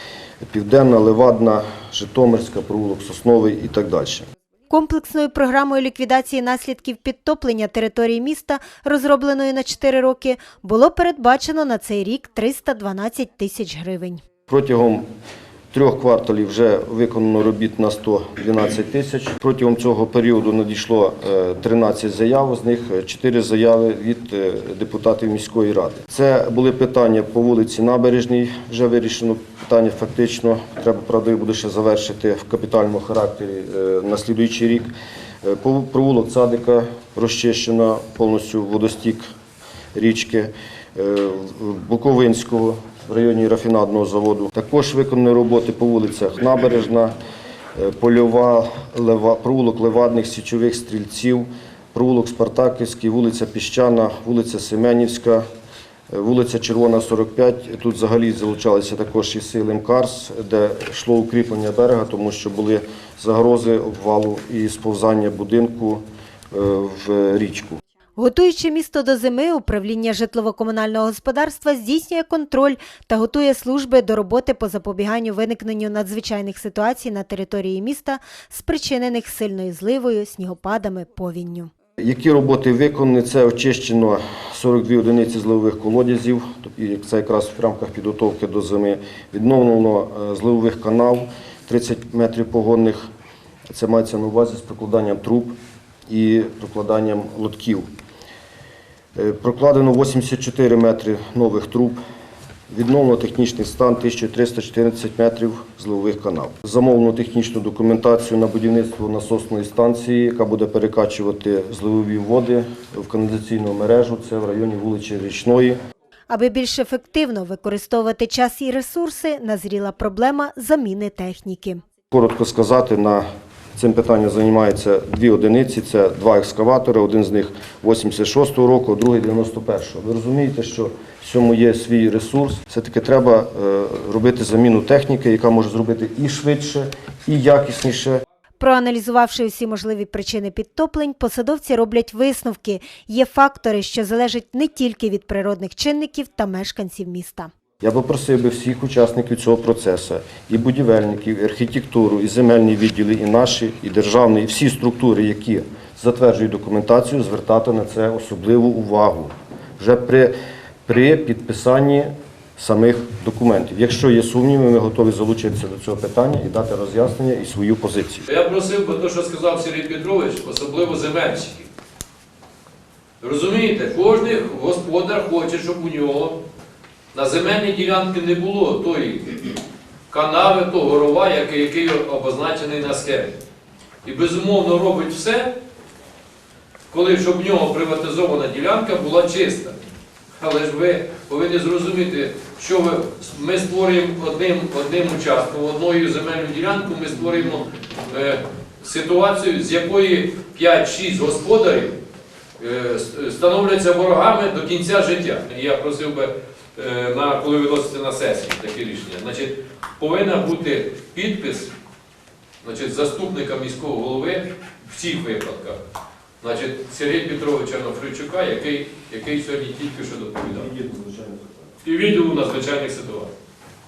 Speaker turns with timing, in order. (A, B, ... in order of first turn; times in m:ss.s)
0:00.4-0:04.2 A
0:04.7-0:14.2 B
0:14.5-0:15.1 A
0:15.7-0:34.9 A
0:35.4-0:39.2 A
0:40.0-0:47.1 A
0:47.8-0:55.4 A
0:56.1-1:07.8 A
1:08.2-1:21.7 B
1:22.0-1:33.0 A
1:33.7-1:35.6 A
1:36.1-1:37.9 A
1:39.2-1:42.0 A
1:42.7-1:55.8 A
1:56.3-2:01.8 B
2:02.1-2:03.2 A
2:03.8-2:18.2 A
2:18.6-2:27.5 B
2:27.8-2:40.3 A
2:40.9-2:48.3 A
2:48.3-2:51.7 C
2:53.2-2:56.4 C
2:57.1-2:59.6 C
3:00.1-3:03.4 C
3:04.0-3:05.5 C
3:06.9-3:09.8 C
3:10.4-3:22.0 C
3:22.6-3:31.7 C
3:32.6-3:35.8 C
3:36.4-3:40.7 C
3:40.4-3:41.7 A
3:41.8-3:43.3 C